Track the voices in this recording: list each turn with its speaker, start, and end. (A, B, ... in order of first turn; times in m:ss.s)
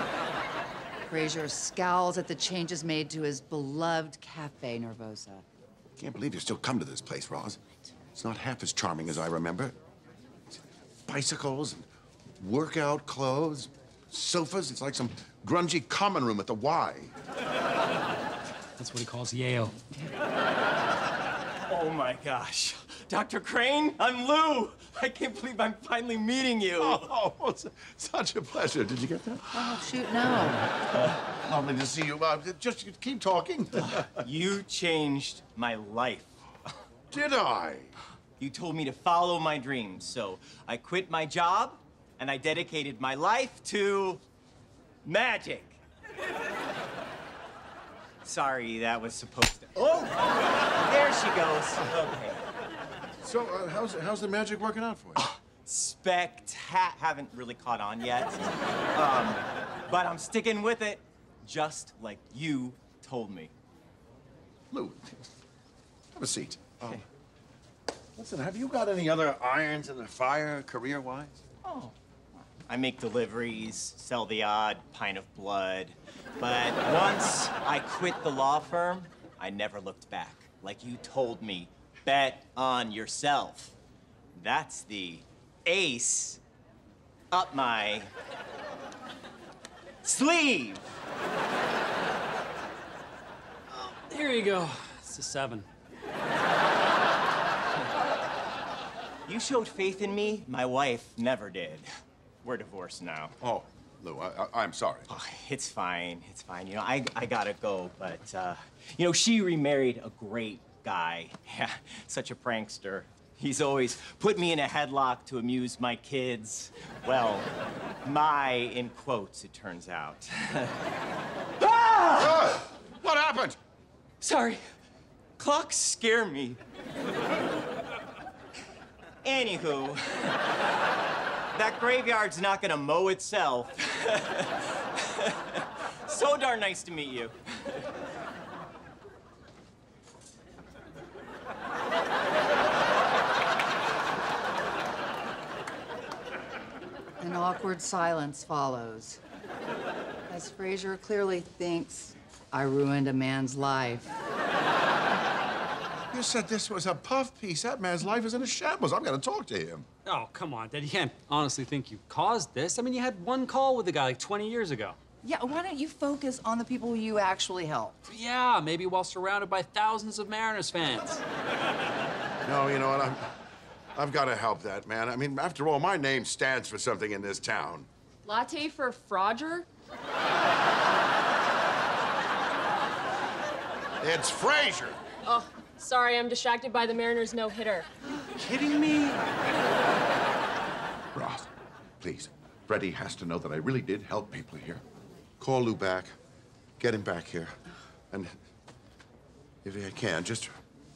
0:01.1-0:05.4 A
0:06.0-0:07.6 B
0:08.1-0:09.7 B
0:10.5-0:11.8 B
0:12.4-0:17.1 B
0:18.8-0:19.8 C
0:21.6-0:27.1 D
0:26.8-0:29.6 B
0:29.5-0:30.6 A
0:31.2-0:34.1 B
0:33.8-0:36.3 D
0:37.1-0:37.9 B
0:38.4-0:44.2 D
0:45.0-0:45.8 D
0:48.2-0:52.4 D
0:53.2-0:55.2 B
0:55.2-1:03.5 D
1:04.7-1:05.2 B
1:06.1-1:07.0 B
1:08.2-1:11.4 B
1:11.6-1:11.9 D
1:12.7-1:23.8 D
1:24.3-1:26.4 D
1:27.3-1:28.1 D
1:30.0-1:31.0 D
1:33.7-1:35.6 C
1:39.3-1:41.9 D
1:42.4-1:43.3 D
1:43.4-1:45.1 B
1:45.1-1:57.5 D
1:58.0-2:00.8 D
2:01.6-2:02.6 D
2:02.2-2:03.6 B
2:04.2-2:04.6 D
2:05.4-2:06.6 D
2:09.2-2:10.5 D
2:11.5-2:17.9 D
2:27.2-2:29.2 A
2:30.3-2:34.1 A
2:36.1-2:39.9 B
2:40.0-2:45.0 C
2:45.2-2:48.1 A
2:48.1-2:51.2 C
2:52.4-2:53.3 B
2:54.0-2:57.9 B
2:58.2-2:59.7 E
3:04.0-3:05.0 B
3:05.2-3:07.9 E
3:08.4-3:09.0 B
3:11.1-3:11.5 B
3:12.0-3:14.8 B
3:15.4-3:16.1 B
3:16.8-3:17.6 B
3:19.6-3:20.5 B